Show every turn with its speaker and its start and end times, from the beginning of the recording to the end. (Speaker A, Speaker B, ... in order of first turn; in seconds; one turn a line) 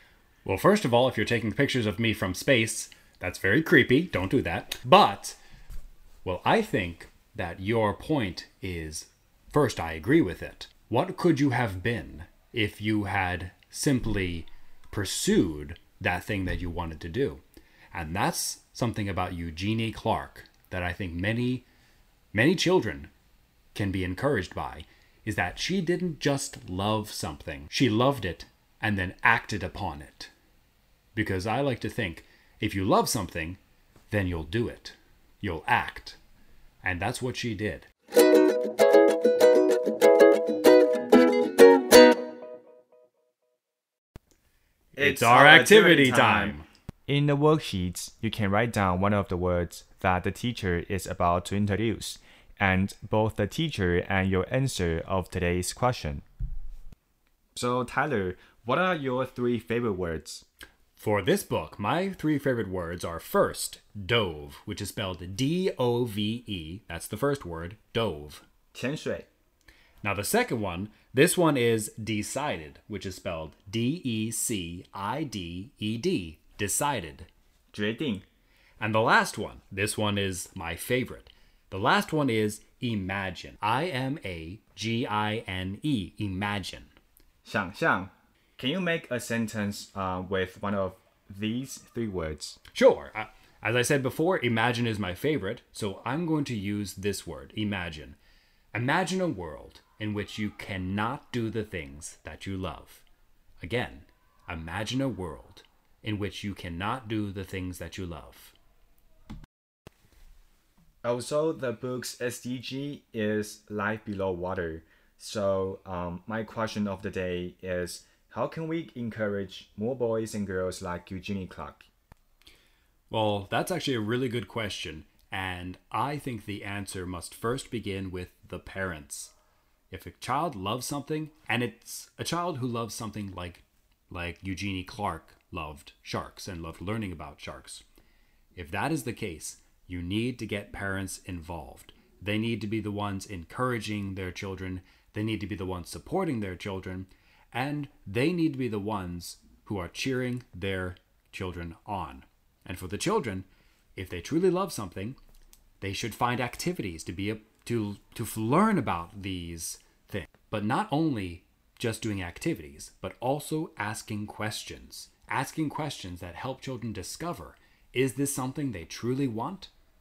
Speaker A: 0.5-5.4
Speaker A: 6.2-21.7
Speaker A: 22.3-23.1
Speaker A: 23.7-30.3
Speaker A: 31.1-36.2
Speaker A: 36.8-37.9
Speaker B: 45.0-56.2
Speaker A: 45.0-46.7
Speaker B: 57.5-60.5
Speaker A: 61.0-68.5
Speaker B: 68.7-69.3
Speaker A: 70.0-77.3
Speaker B: 77.7-78.2
Speaker A: 78.8-86.9
Speaker B: 87.5-92.6
Speaker A: 92.7-98.2
Speaker A: 98.7-103.0
Speaker A: 103.6-108.5
Speaker B: 111.0-121.9
Speaker A: 123.1-129.3
Speaker A: 129.9-137.8
Speaker A: 138.6-155.2
Speaker A: 155.8-169.7